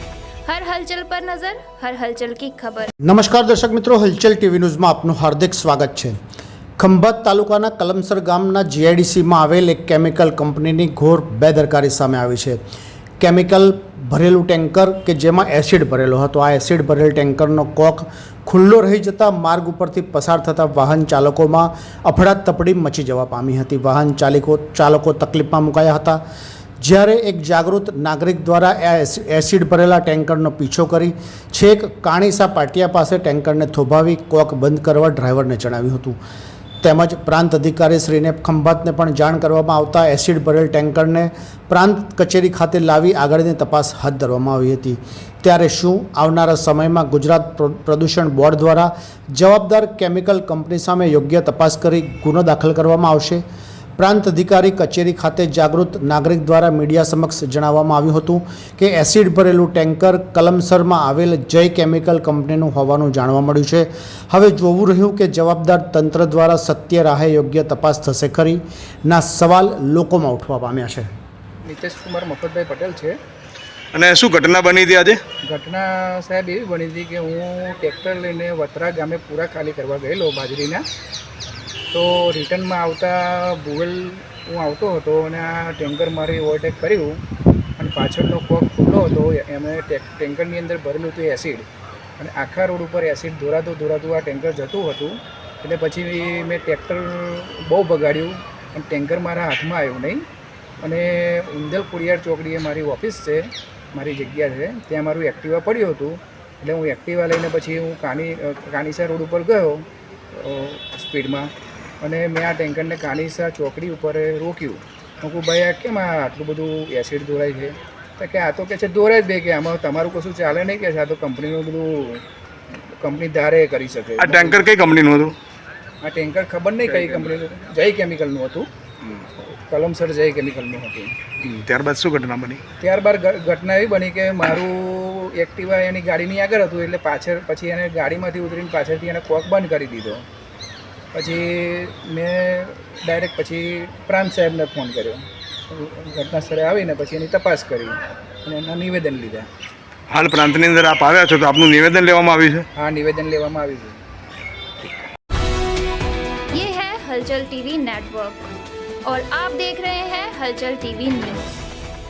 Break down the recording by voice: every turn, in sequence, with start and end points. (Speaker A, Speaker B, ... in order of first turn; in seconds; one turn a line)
Speaker A: 0.5-2.9
Speaker B: 3.0-6.2
Speaker B: 6.8-12.6
Speaker B: 13.2-26.2
Speaker B: 26.8-36.2
Speaker B: 36.8-53.4
Speaker B: 54.0-71.1
Speaker C: 71.7-73.2
Speaker D: 73.9-75.2
Speaker C: 75.4-80.8
Speaker C: 81.9-87.2
Speaker C: 87.8-91.7
Speaker C: 92.2-100.2
Speaker C: 100.8-111.5
Speaker C: 112.0-122.2
Speaker C: 123.0-124.7
Speaker D: 124.2-125.3
Speaker C: 126.0-128.7
Speaker C: 129.4-131.2
Speaker D: 131.4-132.6
Speaker C: 132.8-140.2
Speaker C: 141.1-149.5
Speaker D: 150.1-152.7
Speaker C: 152.8-154.0
Speaker A: 156.5-158.5
Speaker A: 159.1-161.6